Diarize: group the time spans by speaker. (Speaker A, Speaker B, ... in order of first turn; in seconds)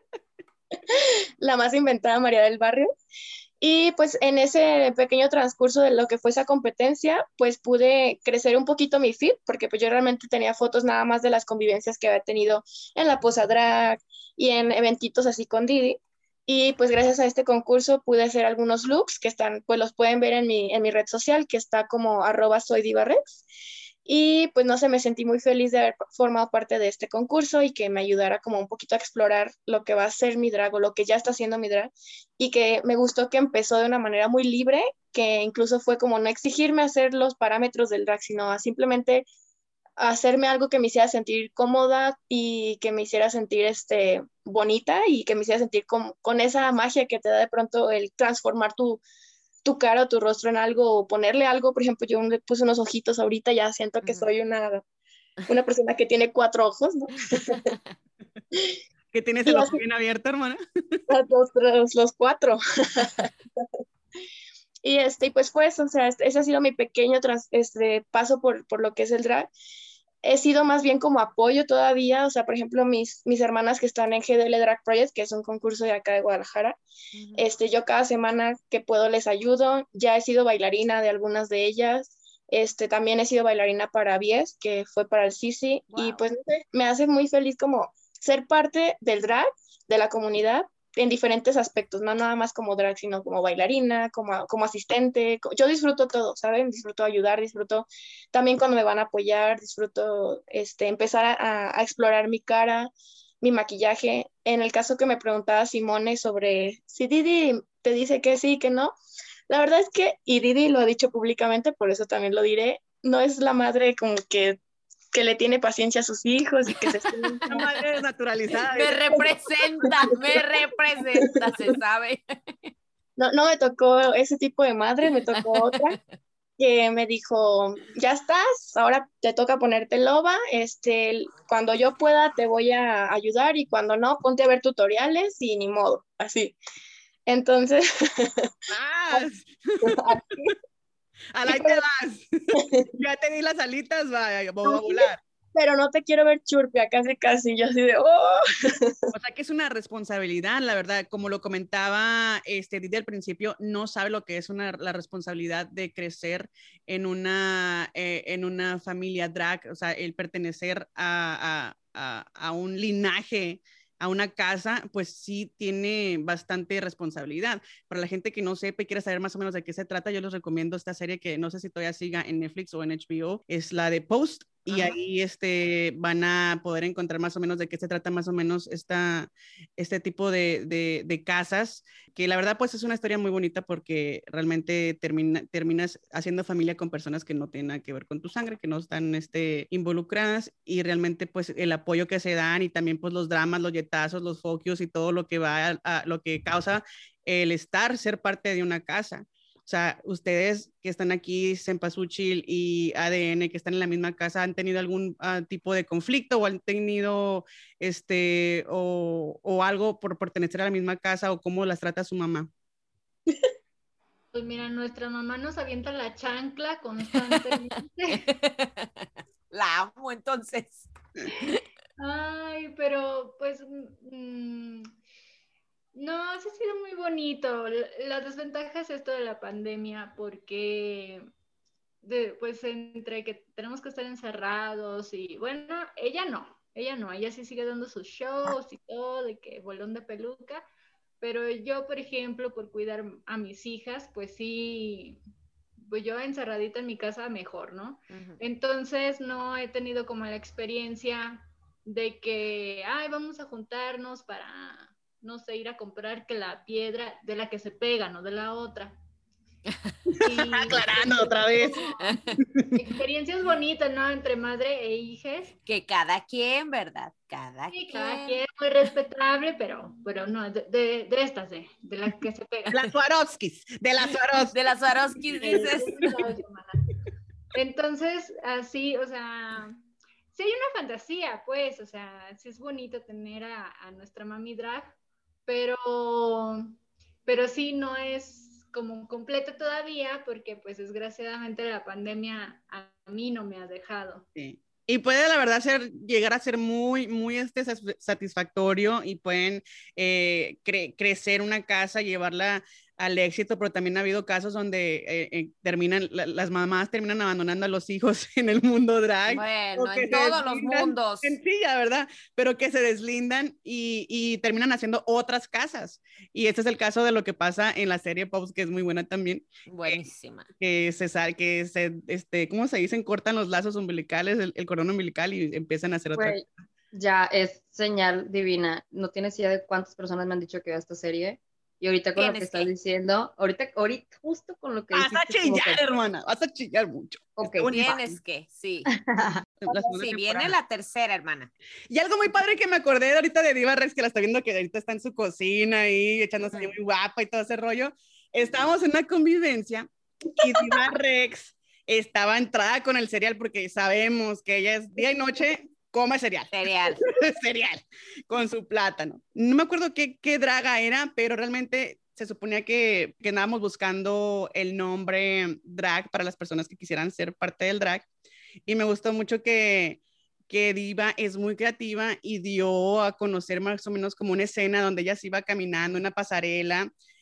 Speaker A: 0.9-2.9, 3.6-23.4, 24.1-39.3, 40.0-49.0, 49.6-54.8, 55.5-57.7, 59.5-59.8, 61.1-63.7, 64.8-69.5, 70.2-76.8, 77.4-102.9, 103.4-109.0, 109.5-114.6, 115.1-117.6, 119.8-120.4, 121.2-121.8, 123.2-126.0, 126.6-136.6, 137.3-138.5, 139.8-140.5, 141.4-141.8, 142.6-142.9, 144.6-149.1
Speaker B: 59.1-61.0, 117.5-119.0, 138.7-140.0, 141.3-145.2, 149.1-212.5, 260.1-261.9, 272.7-274.6, 294.4-320.1, 320.6-326.5, 334.9-338.2, 339.6-340.5, 341.9-349.9, 350.4-356.5, 357.1-368.1, 368.7-376.9
Speaker C: 77.1-77.5, 85.9-86.2, 117.0-117.5, 118.7-122.7, 125.3-125.8, 174.7-175.0, 218.1-221.6, 248.1-248.4, 262.1-262.4, 265.6-268.4, 274.5-276.1, 309.3-311.4, 319.7-320.5, 332.2-332.7, 337.7-338.9, 339.7-341.5, 356.5-357.0
Speaker D: 214.3-218.3, 222.0-224.9, 225.9-231.3, 232.0-240.6, 241.2-245.2, 245.8-259.0, 260.2-262.1, 262.7-265.5, 267.7-272.8, 275.3-276.8, 277.5-279.8, 280.3-286.7, 287.3-294.3
Speaker E: 326.1-335.8, 337.4-337.8, 338.9-339.4